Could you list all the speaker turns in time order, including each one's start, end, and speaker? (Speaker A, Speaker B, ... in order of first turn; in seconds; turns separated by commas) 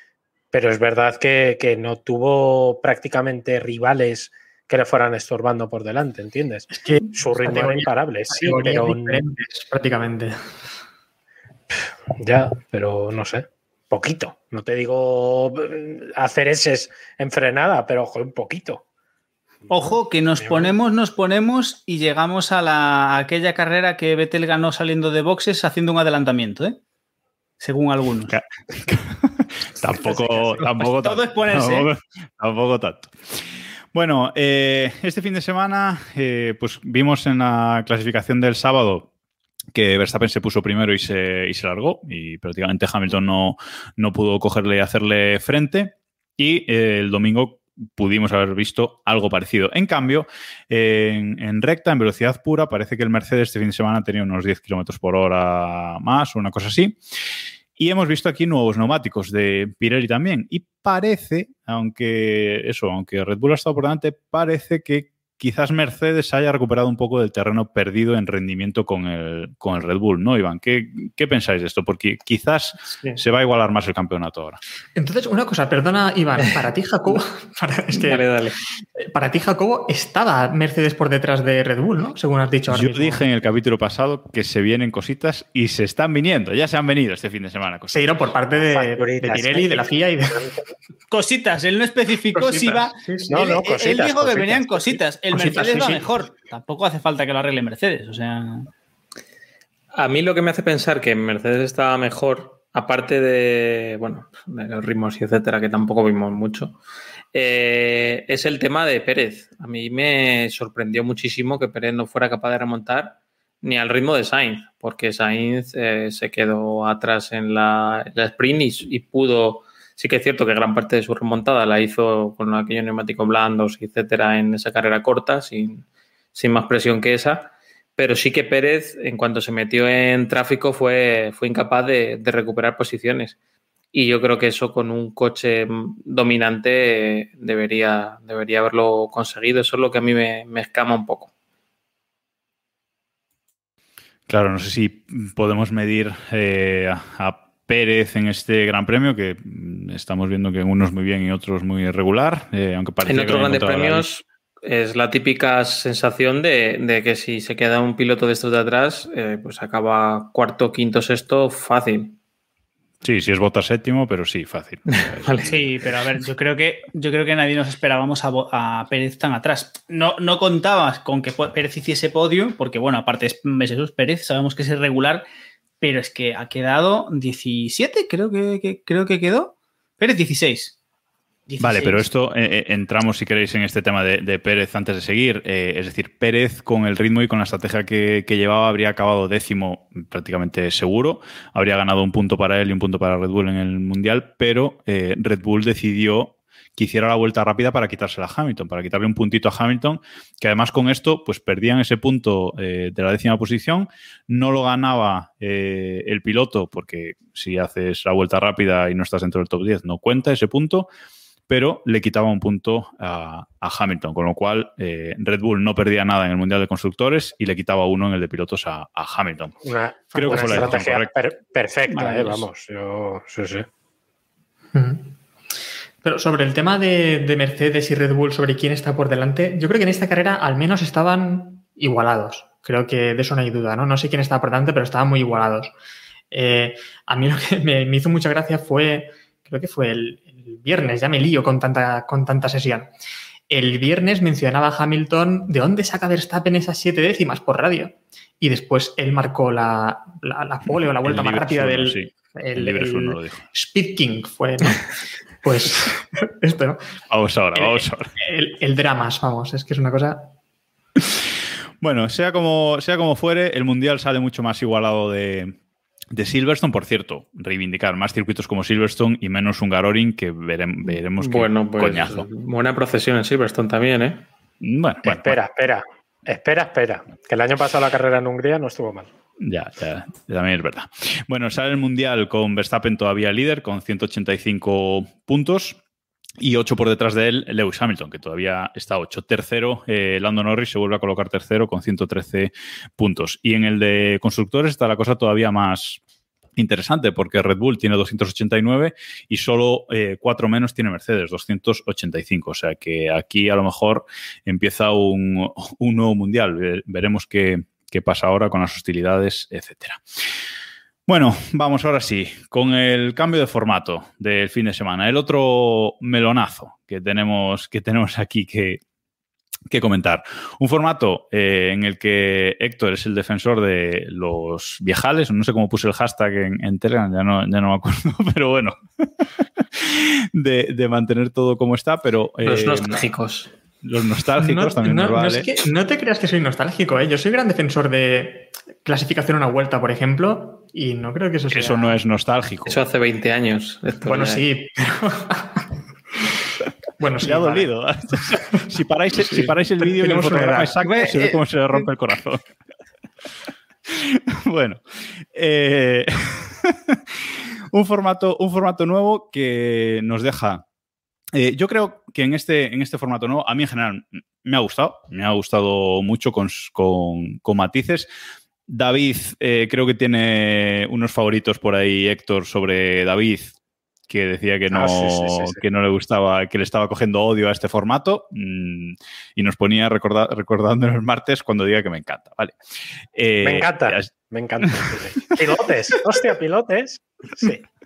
Speaker A: 0.5-9.2, Speaker B: 6.7-10.4, Speaker A: 12.1-18.8, Speaker C: 19.7-26.8, Speaker A: 19.7-20.7, Speaker C: 27.6-28.3, Speaker D: 28.3-39.1, Speaker A: 30.0-30.4, Speaker C: 30.6-31.9, Speaker D: 39.7-57.0, Speaker D: 57.8-74.6, Speaker B: 75.0-78.3, Speaker E: 77.9-78.6, Speaker B: 79.0-83.2, Speaker D: 82.7-88.1, Speaker B: 87.9-90.5, Speaker A: 88.7-90.6, Speaker C: 91.1-98.7, Speaker B: 92.3-93.4, Speaker A: 93.3-95.0, Speaker B: 95.3-96.1, Speaker E: 100.0-106.8, Speaker E: 107.3-133.4, Speaker E: 133.9-141.3, Speaker D: 144.3-154.1, Speaker E: 153.1-162.2, Speaker D: 163.0-165.7, Speaker E: 164.9-165.5, Speaker C: 165.4-175.2, Speaker C: 175.8-180.8, Speaker C: 181.5-182.0, Speaker D: 181.6-210.9, Speaker D: 211.5-219.6, Speaker A: 219.6-223.7, Speaker B: 220.1-220.8, Speaker D: 220.2-221.1, Speaker C: 221.9-222.4, Speaker B: 224.7-225.1, Speaker B: 226.0-235.7, Speaker B: 236.3-242.9, Speaker B: 243.5-254.9, Speaker D: 251.0-253.4, Speaker B: 255.4-256.8, Speaker D: 257.1-258.1, Speaker B: 257.6-260.3, Speaker D: 261.8-265.5, Speaker D: 266.1-272.3, Speaker E: 270.9-274.2, Speaker D: 274.6-275.4, Speaker A: 275.1-279.1, Speaker D: 279.4-285.8, Speaker D: 286.4-296.0, Speaker D: 296.6-310.0, Speaker D: 311.1-318.8, Speaker D: 319.7-333.1, Speaker E: 332.4-333.5, Speaker D: 333.8-335.5, Speaker B: 334.4-342.0, Speaker D: 341.5-342.8, Speaker E: 342.7-344.4, Speaker B: 344.1-345.6, Speaker B: 347.0-347.7, Speaker D: 347.2-352.4, Speaker B: 349.8-350.7, Speaker C: 350.8-351.4, Speaker D: 353.9-360.6, Speaker D: 361.3-368.1, Speaker D: 368.7-373.6, Speaker D: 374.1-382.6, Speaker A: 374.7-375.6, Speaker D: 383.1-384.1, Speaker A: 383.4-387.6, Speaker D: 384.6-385.4